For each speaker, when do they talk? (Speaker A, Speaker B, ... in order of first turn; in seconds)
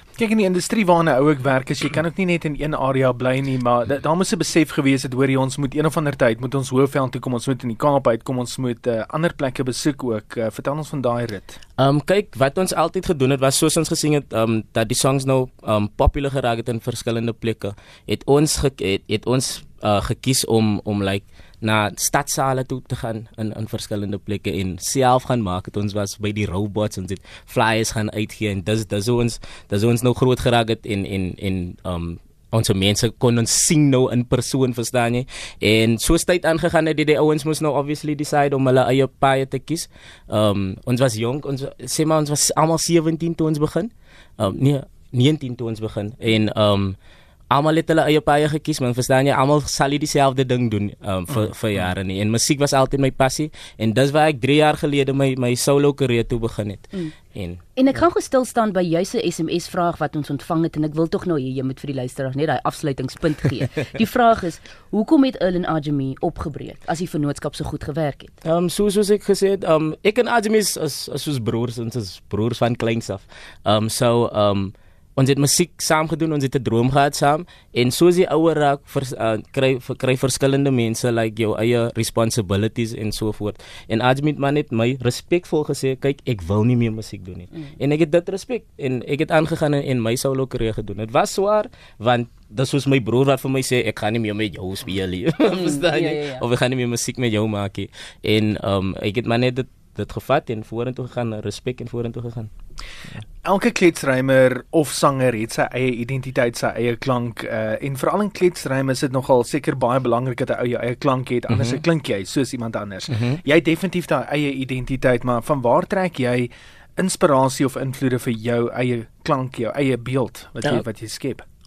Speaker A: 0.2-11.6, 103.4-121.4
Speaker B: 11.8-47.0, 47.5-57.6, 68.4-102.5, 111.5-111.8, 113.1-113.4
Speaker C: 57.8-68.3, 95.5-96.4